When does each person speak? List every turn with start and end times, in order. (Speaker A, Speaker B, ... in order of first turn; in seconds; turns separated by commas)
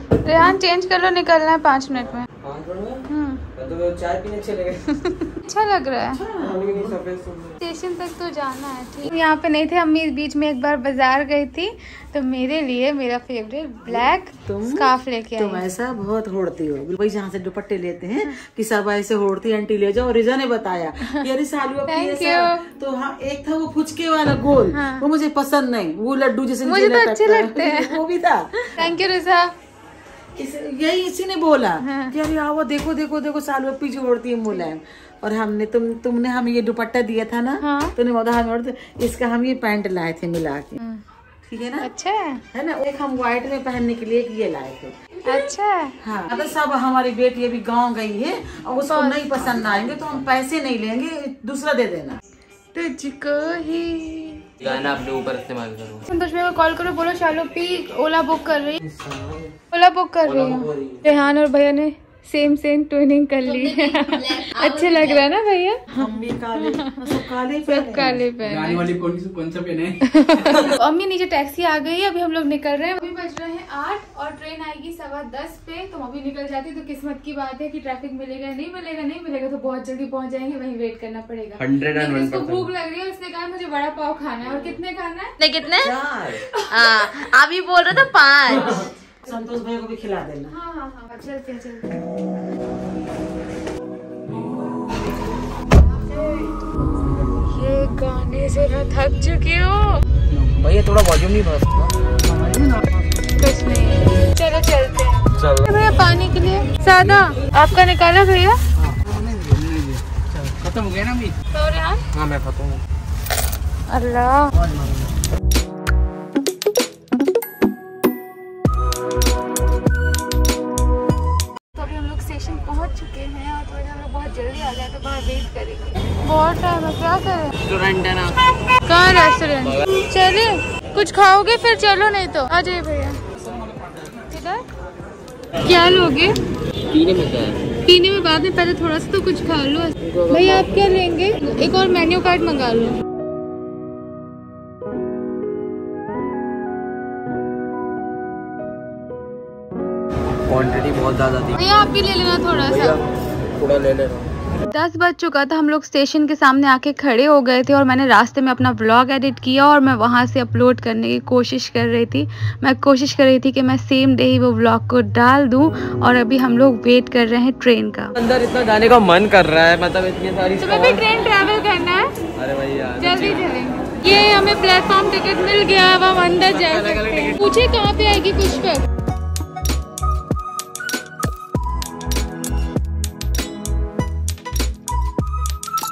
Speaker A: 0.2-2.3, Speaker B: 2.4-3.0, Speaker A: 3.1-3.4, Speaker B: 3.5-4.9, Speaker A: 5.3-6.2, Speaker C: 6.1-7.0, Speaker B: 6.4-7.6, Speaker A: 7.6-15.7, Speaker C: 13.9-28.9, Speaker A: 21.9-22.6, Speaker A: 24.7-25.1, Speaker A: 26.6-28.0, Speaker A: 28.7-29.5, Speaker C: 30.4-40.8, Speaker A: 31.8-32.1, Speaker A: 37.6-37.9, Speaker C: 41.5-41.9, Speaker A: 41.8-42.4, Speaker C: 42.5-44.9, Speaker A: 45.3-45.9, Speaker C: 46.0-52.2, Speaker A: 48.9-49.3, Speaker B: 49.7-50.1, Speaker A: 52.7-54.4, Speaker B: 54.6-56.0, Speaker A: 56.1-58.8, Speaker B: 58.8-59.5, Speaker A: 59.7-66.0, Speaker B: 60.2-61.0, Speaker D: 63.4-65.2, Speaker C: 65.9-68.3, Speaker A: 66.7-67.0, Speaker A: 67.7-68.9, Speaker E: 68.4-70.0, Speaker A: 70.1-85.3, Speaker B: 81.6-82.7, Speaker B: 84.5-84.7, Speaker D: 85.4-86.0, Speaker B: 85.8-86.4, Speaker C: 85.9-86.4, Speaker D: 86.7-88.9, Speaker C: 88.5-90.5, Speaker A: 90.5-91.9, Speaker E: 96.8-97.4, Speaker A: 97.4-100.0, Speaker E: 100.2-100.5, Speaker B: 100.6-101.9, Speaker A: 103.4-108.6, Speaker B: 105.3-105.7, Speaker E: 109.1-110.0, Speaker E: 110.6-111.3, Speaker A: 111.5-112.0, Speaker B: 112.1-112.8, Speaker A: 113.9-114.5, Speaker B: 114.6-115.0, Speaker A: 121.7-127.5, Speaker B: 127.6-128.4, Speaker A: 128.8-133.2, Speaker A: 134.3-134.6, Speaker A: 135.6-136.4, Speaker B: 136.9-137.6, Speaker A: 137.8-143.0, Speaker B: 140.1-140.7, Speaker B: 150.5-151.6, Speaker A: 151.6-153.0, Speaker B: 152.7-153.0, Speaker B: 153.6-154.3, Speaker A: 154.7-168.1, Speaker B: 168.2-171.1, Speaker A: 170.6-172.1, Speaker B: 172.3-173.4, Speaker A: 173.0-178.8, Speaker B: 176.5-177.4